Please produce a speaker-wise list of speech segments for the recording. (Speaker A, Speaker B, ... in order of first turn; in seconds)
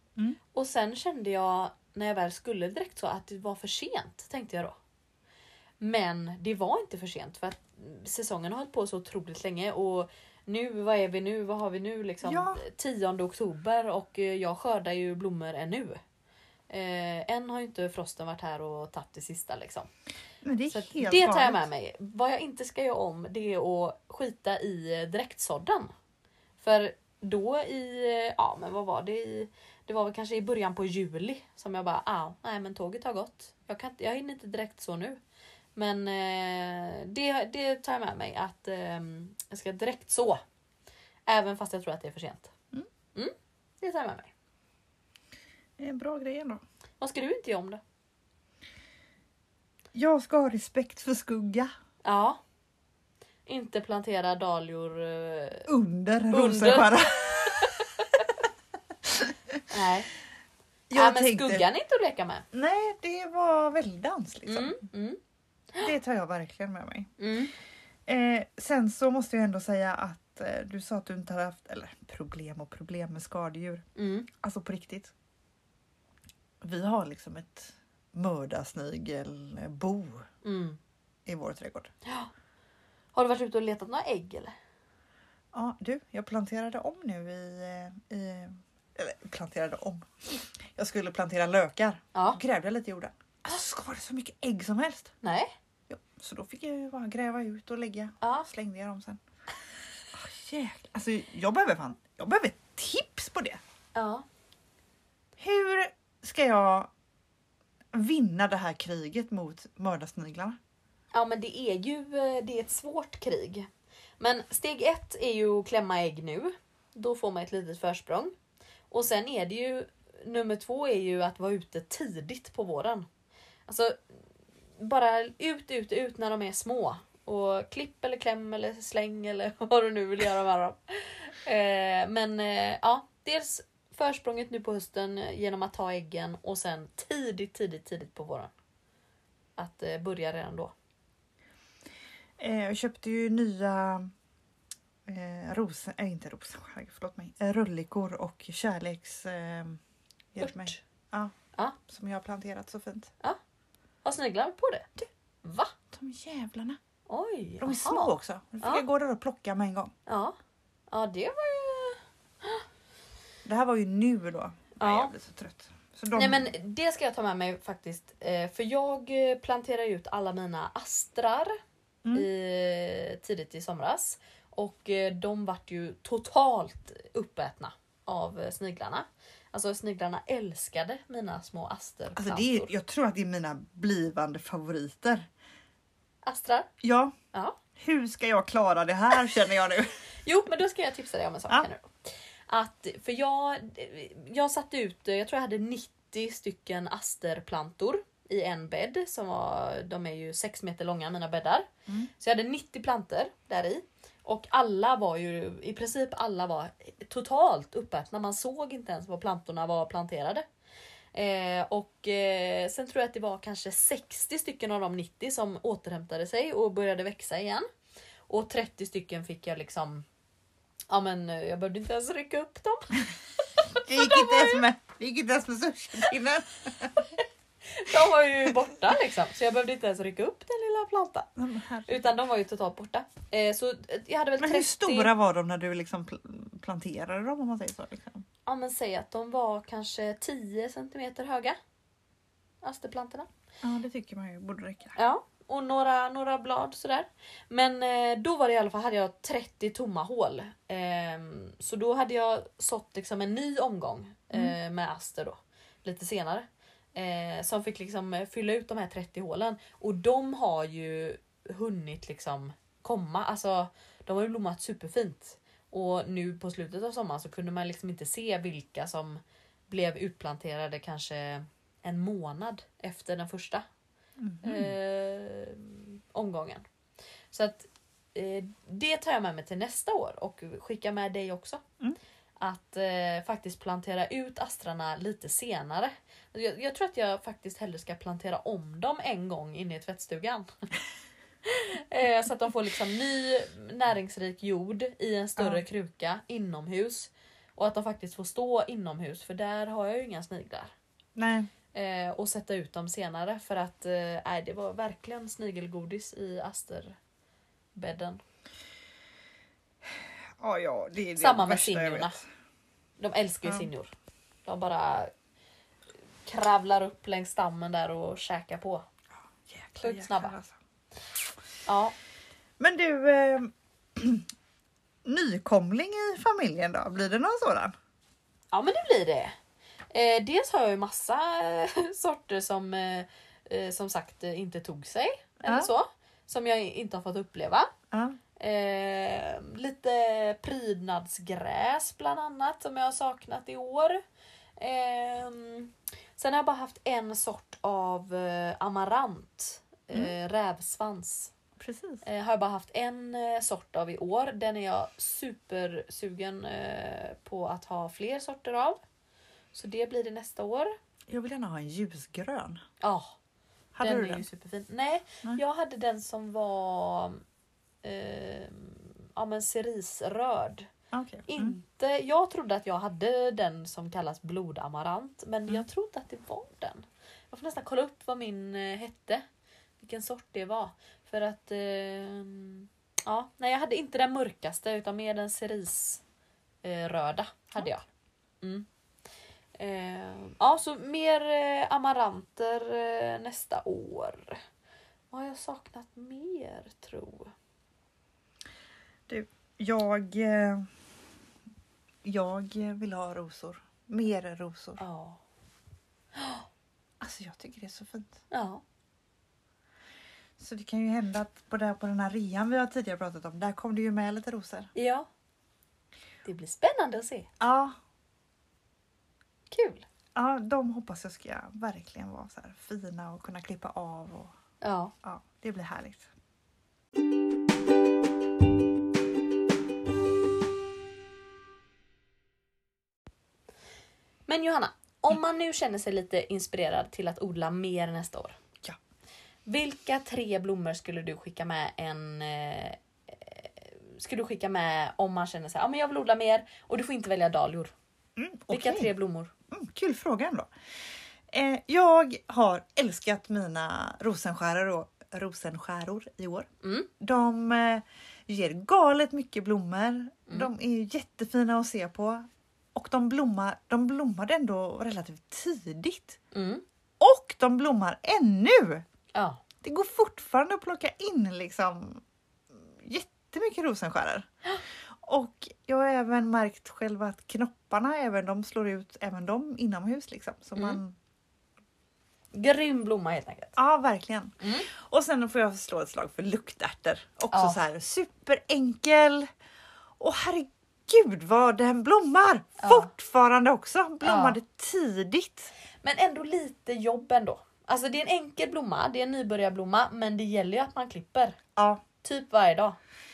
Speaker A: 0.5-4.7, 5.8-16.0, 16.7-19.9, 20.7-25.9, 26.6-35.2, 35.7-40.4, 41.3-42.5, 43.1-44.3, 47.0-47.8, 52.0-52.4, 53.5-55.7, 56.3-58.3, 59.7-60.1, 60.9-62.5, 64.5-65.2, 67.2-67.5, 74.0-74.3, 80.4-80.8, 82.0-82.3, 83.1-84.5, 92.1-92.4, 95.2-95.5, 98.2-98.5, 103.9-104.2, 111.1-113.7, 114.2-118.3, 118.9-123.1, 123.7-124.0, 124.8-138.5, 139.6-140.7, 150.4-150.8, 154.0-155.7, 157.1-158.1, 160.1-160.3, 160.9-162.6, 164.8-165.1, 166.1-171.6, 172.1-182.7, 186.2-186.7, 187.3-187.6, 190.2-210.4, 211.1-217.7, 218.3-220.0, 220.9-223.0, 223.5-224.6, 227.0-231.3, 231.9-235.1, 238.4-241.6, 242.6-243.3, 245.0-273.6, 274.4-276.6, 277.3-281.6, 282.4-290.5, 291.4-300.7, 301.7-307.0, 307.8-308.2, 311.2-312.2, 313.0-313.9, 314.4-315.1, 316.2-318.9, 319.8-320.3, 321.6-321.9, 328.5-329.3, 329.9-337.7, 338.4-344.0, 344.6-351.3, 352.0-358.8, 359.5-360.7, 362.8-363.2, 363.8-367.2, 367.8-370.7, 371.3-379.2, 379.8-386.0, 386.6-387.8, 388.4-388.7, 389.6-394.4, 395.1-397.3, 404.8-405.2, 406.1-406.5, 408.3-408.6, 414.7-415.1, 416.2-417.3, 419.5-419.8, 424.6-424.9, 434.3-438.4, 439.5-447.7, 448.5-449.3, 456.6-456.9, 466.3-466.6, 469.1-469.4, 482.3-483.6, 484.4-484.7, 487.3-487.6, 492.6-492.9, 494.0-494.4, 495.8-501.4, 502.0-502.8
Speaker B: 12.2-12.6, 20.4-21.6, 45.8-46.6, 49.9-51.7, 55.7-57.9, 59.0-59.6, 60.9-61.6, 62.5-64.8, 65.8-67.1, 68.1-75.1, 76.6-80.3, 81.2-81.9, 85.5-95.1, 95.9-99.2, 100.1-103.6, 105.4-106.9, 107.9-110.6, 142.4-144.1, 145.1-149.8, 150.3-151.3, 151.9-153.1, 155.9-156.8, 157.6-159.9, 163.4-166.5, 182.2-185.3, 186.8-187.1, 187.8-189.9, 223.8-227.1, 231.3-232.1, 234.4-238.2, 243.6-244.9, 274.2-274.7, 295.4-295.6, 301.1-301.5, 310.4-312.2, 313.4-313.7, 319.4-320.6, 322.6-324.3, 325.0-327.7, 335.4-335.7, 337.9-338.2, 351.6-352.0, 361.1-362.6, 363.7-364.2, 370.9-371.6, 399.1-400.7, 402.0-404.8, 407.0-408.2, 410.4-414.7, 417.4-417.7, 420.1-424.3, 425.0-426.1, 448.1-448.9, 449.5-450.5, 451.3-456.5, 457.0-466.2, 467.0-468.8, 469.6-474.3, 475.0-480.9, 483.6-489.3, 490.0-495.5, 501.6-501.8